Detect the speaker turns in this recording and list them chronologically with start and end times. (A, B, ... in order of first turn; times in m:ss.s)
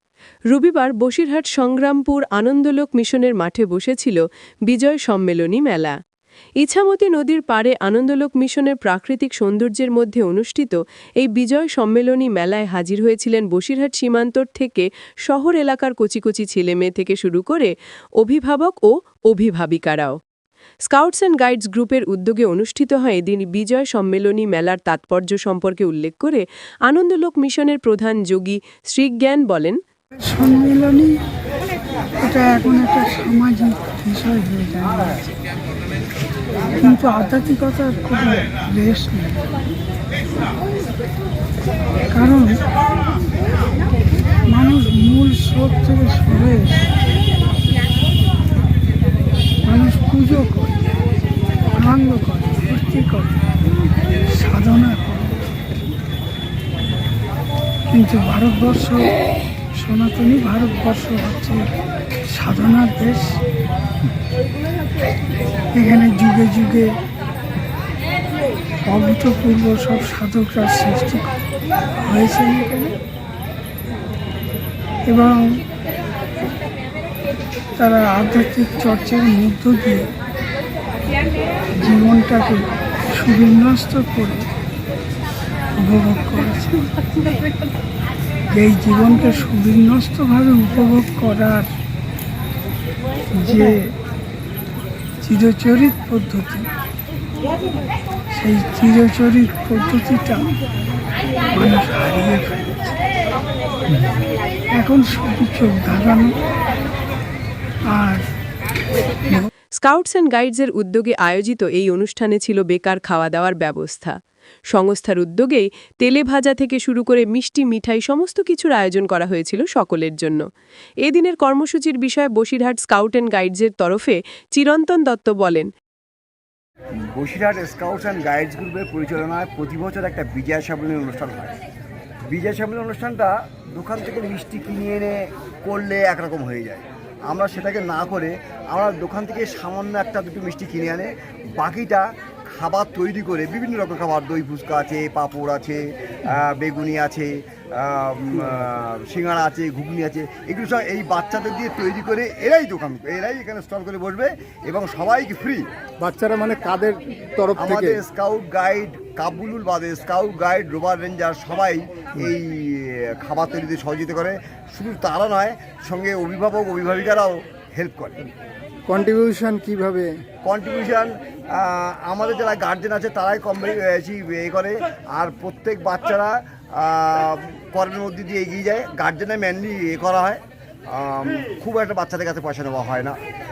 0:00.5-0:06.0 A
0:06.6-0:20.2 A
0:20.9-0:29.8 A
0:30.2-0:31.1 B
0:32.2-0:35.4 B
0:36.8-0:39.5 B
0:42.1-0:42.5 B
0:44.5-0:46.9 B
0:49.6-0:50.9 B
0:51.8-0:53.4 B
0:54.3-0:55.6 B
0:57.9-0:59.1 B
0:59.8-1:01.6 B
1:02.3-1:03.4 B
1:05.7-1:06.9 B
1:08.8-1:11.3 B
1:12.0-1:12.9 B
1:15.1-1:15.6 B
1:17.8-1:20.0 B
1:21.8-1:22.6 B
1:23.1-1:24.4 B
1:25.8-1:26.9 B
1:28.5-1:31.7 B
1:33.3-1:33.9 B
1:35.2-1:36.6 B
1:38.3-1:40.4 B
1:41.5-1:42.9 B
1:44.7-1:46.4 B
1:47.9-1:48.2 B
1:49.8-1:54.2 A
1:54.7-2:00.4 A
2:01.0-2:05.7 A
2:07.1-2:11.6 C
2:12.3-2:35.7 C
2:36.0-2:38.0 D
2:37.6-2:48.3 C
2:48.9-2:50.1 D
2:50.4-3:03.2 C